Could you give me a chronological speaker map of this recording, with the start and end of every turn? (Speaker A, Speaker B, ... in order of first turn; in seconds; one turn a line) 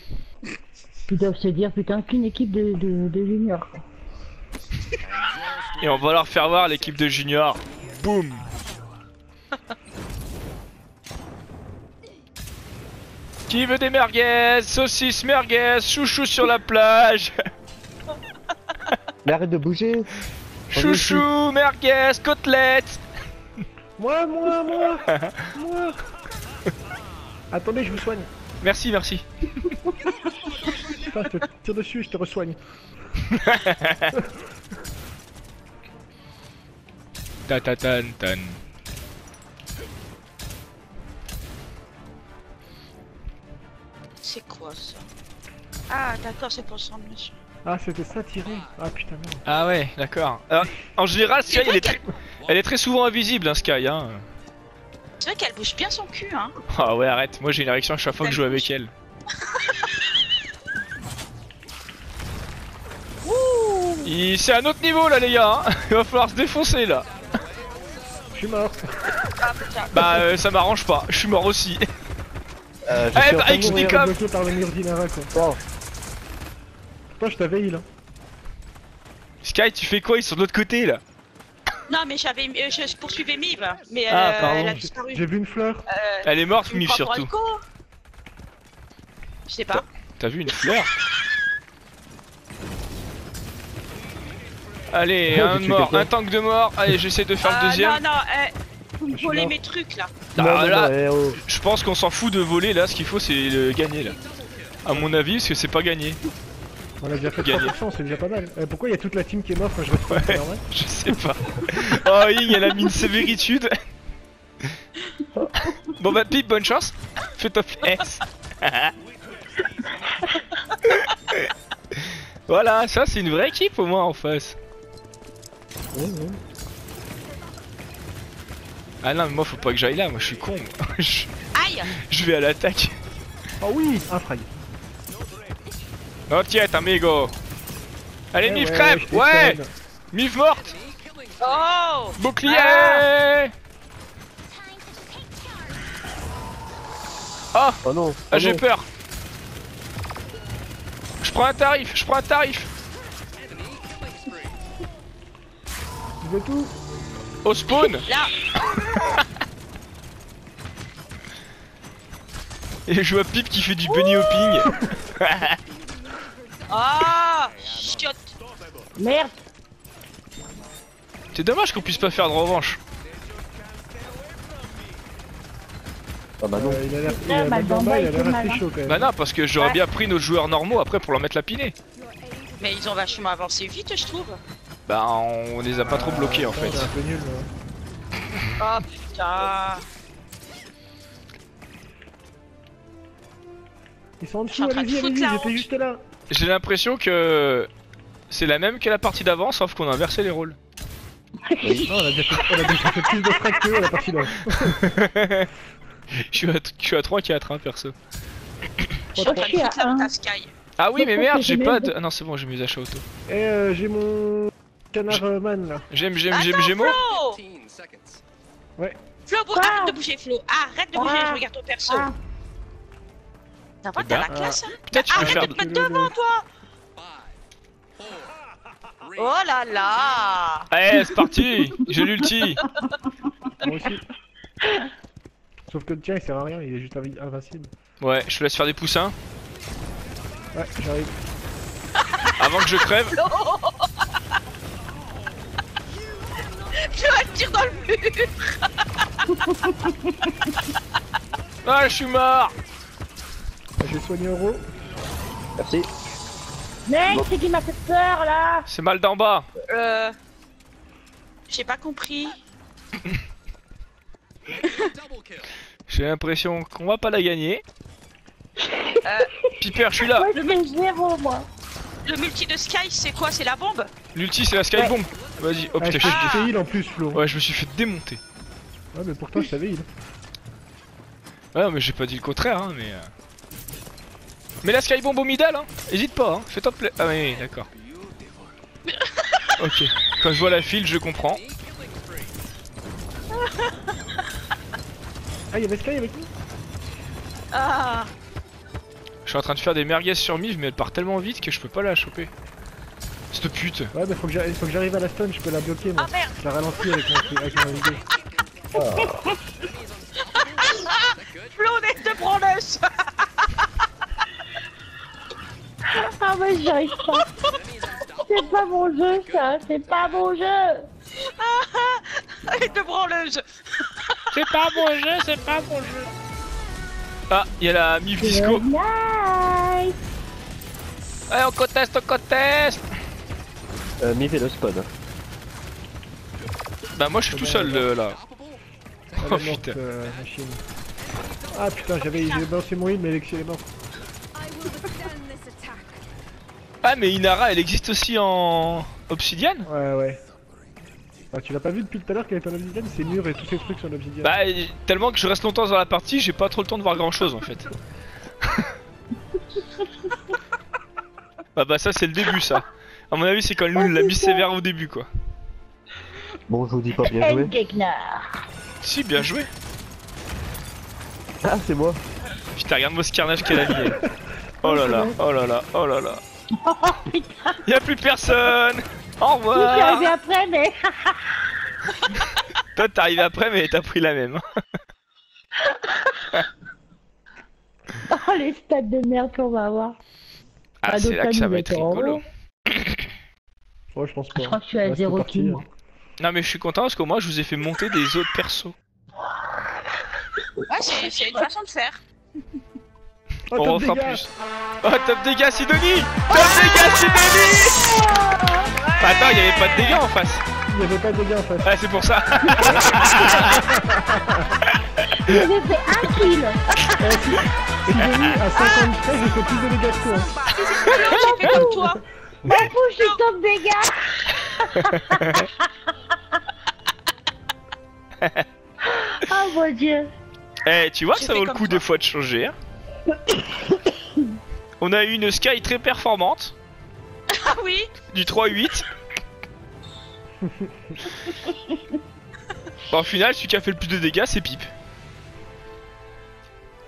Speaker A: 1.1-3.8
Speaker B: 5.8-8.5
Speaker B: 13.5-17.3
Speaker C: 19.2-20.1
Speaker B: 20.7-23.0
Speaker D: 20.8-21.2
Speaker C: 20.8-21.2
Speaker D: 24.0-26.0
Speaker D: 27.5-28.3
Speaker B: 28.6-29.7
Speaker D: 30.9-32.6
Speaker B: 33.4-34.1
Speaker B: 37.5-38.6
Speaker E: 44.2-45.0
Speaker E: 45.9-47.3
Speaker D: 47.6-49.4
Speaker B: 49.5-54.2
Speaker E: 51.5-52.0
Speaker E: 55.2-56.5
Speaker B: 56.7-58.9
Speaker E: 58.2-58.7
Speaker E: 59.4-60.1
Speaker E: 63.2-64.1
Speaker B: 64.0-67.1
Speaker D: 68.3-69.1
Speaker E: 69.4-70.2
Speaker B: 69.9-71.8
Speaker C: 72.9-74.1
Speaker B: 73.1-74.2
Speaker D: 73.5-75.3
Speaker C: 75.3-75.6
Speaker D: 77.2-77.8
Speaker B: 79.4-81.0
Speaker E: 81.9-85.3
Speaker B: 84.1-84.8
Speaker D: 84.4-85.9
Speaker E: 85.9-87.6
Speaker B: 86.2-87.3
Speaker E: 89.5-89.9
Speaker B: 90.2-90.9
Speaker B: 94.9-98.0
Speaker C: 95.3-96.1
Speaker E: 97.4-98.5
Speaker E: 99.0-100.3
Speaker D: 99.1-99.6
Speaker B: 100.3-100.9
Speaker C: 100.3-101.4
Speaker B: 101.4-104.2
Speaker B: 104.8-106.2
Speaker D: 107.0-110.7
Speaker B: 107.4-107.8
Speaker B: 110.1-113.7
Speaker B: 116.0-118.9
Speaker B: 120.9-121.5
Speaker B: 122.5-124.6
Speaker C: 126.0-126.4
Speaker B: 129.0-131.3
Speaker E: 131.6-131.9
Speaker B: 131.9-133.0
Speaker D: 133.6-134.5
Speaker B: 136.3-137.3
Speaker B: 138.3-139.6
Speaker D: 138.4-139.7
Speaker B: 140.1-140.8
Speaker E: 141.4-143.1
Speaker B: 142.2-143.5
Speaker B: 147.5-148.9
Speaker C: 147.8-148.3
Speaker D: 148.3-148.6
Speaker B: 151.2-152.7
Speaker D: 156.2-156.7
Speaker B: 157.4-158.1
Speaker E: 158.1-158.3
Speaker B: 162.9-165.6
Speaker E: 163.8-164.6
Speaker E: 166.7-168.3
Speaker A: 169.0-169.4
Speaker B: 171.3-172.8
Speaker C: 176.4-176.8
Speaker D: 176.6-179.1
Speaker A: 177.0-178.6
Speaker B: 178.8-181.8
Speaker E: 182.6-184.4
Speaker B: 184.9-186.9
Speaker D: 185.8-187.5
Speaker E: 188.6-189.8
Speaker D: 194.2-196.0
Speaker E: 194.5-195.7
Speaker B: 196.3-197.7
Speaker B: 198.3-200.6
Speaker A: 201.5-201.9
Speaker C: 201.6-201.9
Speaker D: 201.9-204.8
Speaker B: 204.8-205.5
Speaker B: 206.3-207.9
Speaker D: 209.2-209.5
Speaker A: 209.2-210.1
Speaker E: 209.2-210.5
Speaker B: 210.8-213.0
Speaker A: 211.0-211.9
Speaker D: 213.3-215.9
Speaker B: 215.9-217.0
Speaker E: 216.3-217.4
Speaker E: 219.3-222.1
Speaker A: 219.5-220.0
Speaker A: 220.9-222.2
Speaker E: 223.8-226.4
Speaker B: 224.0-224.3
Speaker D: 224.3-226.2
Speaker B: 224.8-225.6
Speaker E: 229.2-230.7
Speaker B: 230.7-232.6
Speaker D: 233.6-234.0
Speaker D: 235.7-237.7
Speaker B: 238.0-239.2
Speaker D: 240.5-241.2
Speaker B: 242.4-243.2
Speaker E: 243.1-244.1
Speaker E: 246.7-248.5
Speaker A: 249.3-250.3
Speaker B: 251.6-252.6
Speaker D: 253.8-254.7
Speaker C: 255.6-255.9
Speaker A: 256.9-258.7
Speaker B: 258.7-259.5
Speaker E: 259.7-260.1
Speaker E: 261.5-262.4
Speaker E: 264.6-264.9
Speaker B: 265.9-267.6
Speaker A: 268.6-269.5
Speaker E: 269.1-269.3
Speaker B: 269.6-270.3
Speaker A: 270.0-271.5
Speaker E: 270.3-270.7
Speaker E: 272.1-273.9
Speaker B: 274.1-276.5
Speaker D: 275.8-277.2
Speaker E: 276.0-276.5
Speaker B: 277.1-278.2
Speaker D: 278.9-279.9
Speaker B: 281.5-283.1
Speaker B: 284.6-287.7
Speaker E: 288.9-289.5
Speaker B: 289.6-291.4
Speaker E: 293.4-293.7
Speaker D: 295.5-296.3
Speaker E: 297.5-298.1
Speaker B: 299.3-302.3
Speaker B: 303.3-303.9
Speaker D: 303.9-308.1
Speaker E: 306.0-306.4
Speaker A: 308.8-309.4
Speaker C: 308.8-309.1
Speaker E: 310.6-313.5
Speaker A: 315.9-317.3
Speaker A: 318.1-320.9
Speaker E: 321.3-324.4
Speaker B: 324.3-326.1
Speaker B: 327.3-328.6
Speaker A: 328.2-329.9
Speaker B: 331.3-332.9
Speaker C: 334.0-334.9
Speaker B: 336.9-338.2
Speaker D: 337.3-337.9
Speaker B: 339.2-339.8
Speaker D: 339.2-340.6
Speaker D: 341.5-343.6
Speaker E: 342.1-342.4
Speaker B: 346.8-349.7
Speaker D: 349.7-350.2
Speaker D: 351.3-354.4
Speaker B: 354.2-357.7
Speaker B: 361.6-365.1
Speaker A: 363.8-364.5
Speaker C: 366.5-367.5
Speaker A: 367.1-368.3
Speaker B: 368.8-369.5
Speaker C: 371.4-372.0
Speaker B: 372.5-374.0
Speaker B: 374.6-376.2
Speaker D: 374.7-375.1
Speaker A: 376.6-377.6
Speaker B: 377.6-380.1
Speaker A: 379.6-381.2
Speaker B: 382.8-384.4
Speaker A: 385.6-386.4
Speaker A: 388.1-390.0
Speaker B: 390.8-392.2
Speaker A: 390.9-392.2
Speaker D: 393.9-395.7
Speaker A: 394.4-395.6
Speaker B: 396.2-398.8
Speaker E: 400.7-402.0
Speaker A: 400.9-401.3
Speaker D: 403.5-404.3
Speaker B: 403.6-404.3
Speaker B: 404.8-407.8
Speaker E: 406.3-407.4
Speaker A: 407.8-408.7
Speaker E: 408.8-410.0
Speaker B: 409.0-410.4
Speaker D: 410.7-411.7
Speaker B: 411.6-413.6
Speaker D: 412.6-414.4
Speaker A: 415.2-416.9
Speaker D: 417.0-420.3
Speaker B: 417.9-418.3
Speaker E: 418.6-418.9
Speaker E: 420.4-423.2
Speaker A: 420.8-421.9
Speaker A: 422.4-425.5
Speaker B: 424.9-425.5
Speaker A: 428.9-430.1
Speaker B: 430.6-432.6
Speaker E: 431.1-431.9
Speaker B: 434.8-436.6
Speaker E: 437.3-437.9
Speaker B: 438.1-438.9
Speaker B: 442.9-444.7